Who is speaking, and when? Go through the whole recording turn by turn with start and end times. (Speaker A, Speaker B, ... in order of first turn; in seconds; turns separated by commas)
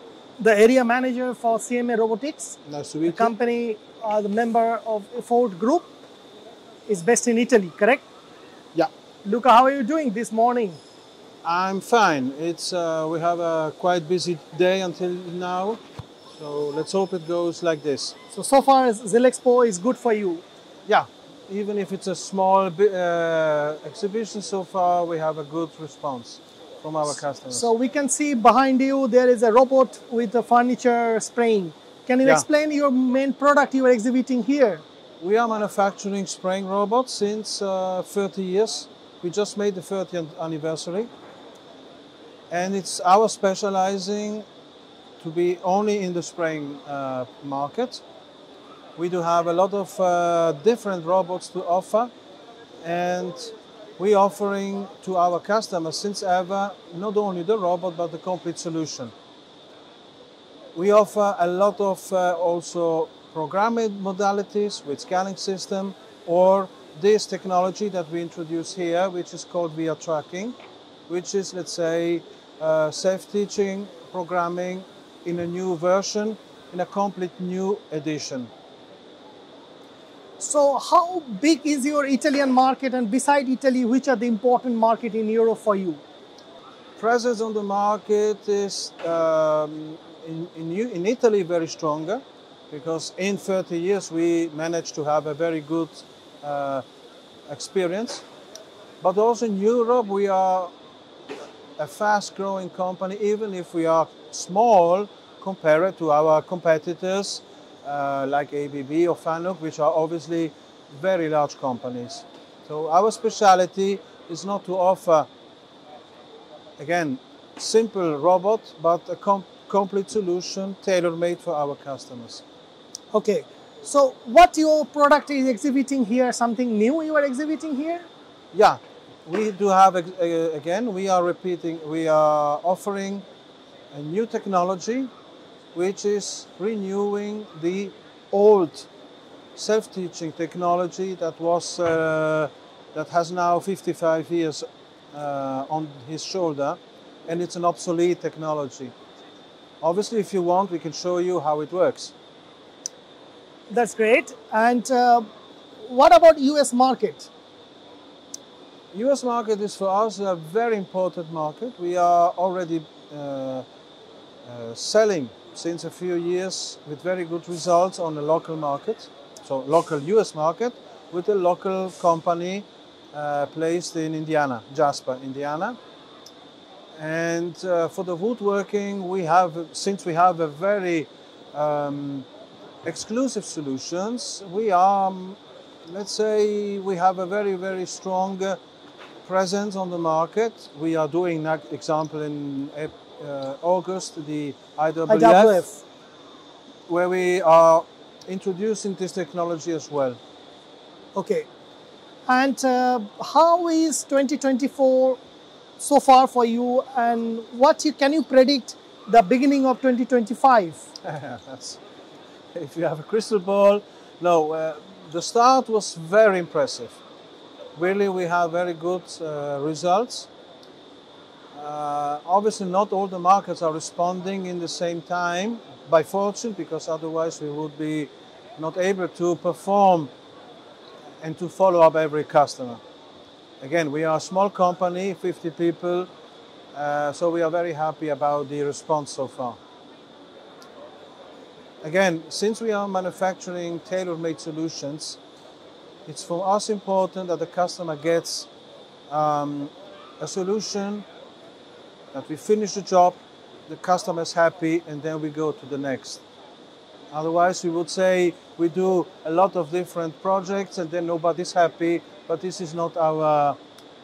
Speaker A: 0.4-5.9, Speaker B: 2.6-3.3, Speaker A: 6.9-8.1, Speaker A: 9.2-10.8, Speaker B: 11.4-15.8, Speaker B: 16.3-18.1, Speaker A: 18.3-20.4, Speaker B: 20.9-27.7, Speaker A: 27.5-34.8, Speaker B: 35.2-41.1, Speaker B: 42.5-44.4, Speaker B: 45.2-48.0, Speaker B: 49.0-52.1, Speaker B: 52.8-59.1, Speaker B: 60.7-70.5, Speaker B: 71.1-78.5, Speaker A: 80.4-86.0, Speaker B: 87.0-96.8, Speaker B: 97.5-98.2, Speaker B: 99.0-100.7, Speaker B: 101.8-115.3, Speaker B: 116.8-122.4, Speaker A: 123.1-128.1, Speaker B: 128.5-133.2, Speaker B: 133.9-135.1, Speaker B: 135.7-138.9, Speaker B: 139.6-148.9, Speaker B: 149.8-152.1, Speaker A: 153.7-155.2, Speaker A: 155.8-157.3, Speaker B: 158.9-163.7, Speaker B: 164.4-175.8, Speaker B: 176.9-182.3, Speaker B: 182.8-188.6, Speaker B: 189.2-195.6, Speaker A: 195.1-195.8, Speaker B: 196.9-200.2, Speaker A: 201.1-201.5, Speaker A: 202.3-205.2, Speaker A: 205.8-210.8, Speaker B: 211.0-211.8, Speaker B: 212.5-217.0, Speaker B: 217.8-220.3, Speaker B: 221.5-230.1, Speaker B: 231.2-232.8, Speaker B: 233.6-236.1, Speaker B: 236.7-239.6, Speaker B: 241.8-245.2, Speaker B: 246.1-248.5, Speaker B: 249.1-251.1, Speaker B: 252.1-253.2, Speaker B: 253.7-256.2, Speaker B: 257.1-263.6